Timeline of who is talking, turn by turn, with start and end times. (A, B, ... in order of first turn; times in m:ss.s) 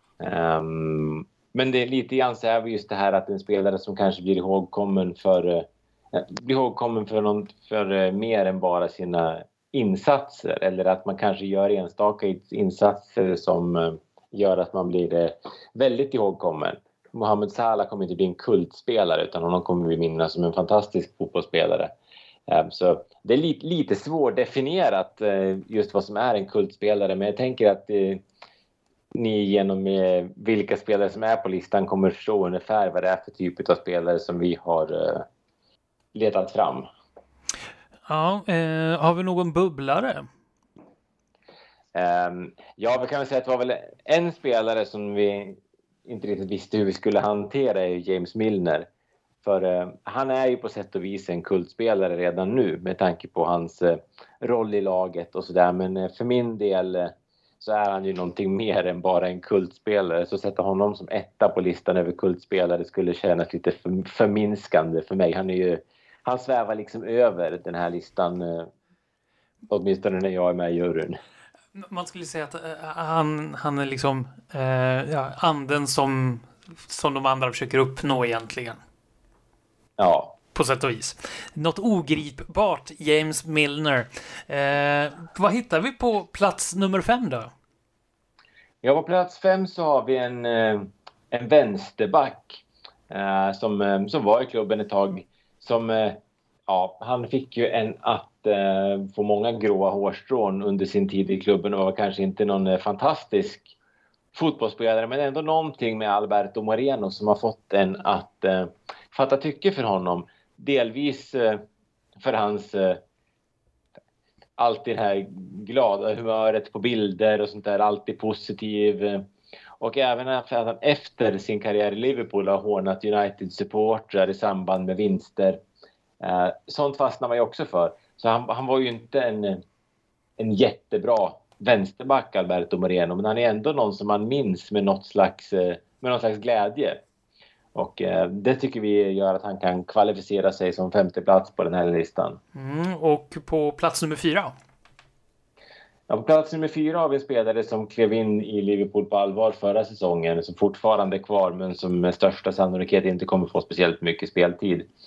0:00.2-0:21.9 A
0:22.5-0:28.2 A
0:29.1-0:35.3 A
0:36.1-0:36.9 A
0:38.1-0:40.3 B
0:41.9-0:48.9 A
0:49.4-1:08.7 A
1:09.7-1:11.2 A
1:11.7-1:18.8 B
1:20.0-1:20.3 A
1:20.6-1:27.5 B
1:28.8-1:43.7 A
1:44.3-1:51.6 A
1:52.2-1:53.0 A
1:54.6-1:59.3 A
1:59.8-2:05.6 A
2:06.2-2:09.6 A
2:10.4-2:17.0 A
2:17.7-2:22.4 A
2:22.6-2:24.5 B
2:26.1-2:34.9 A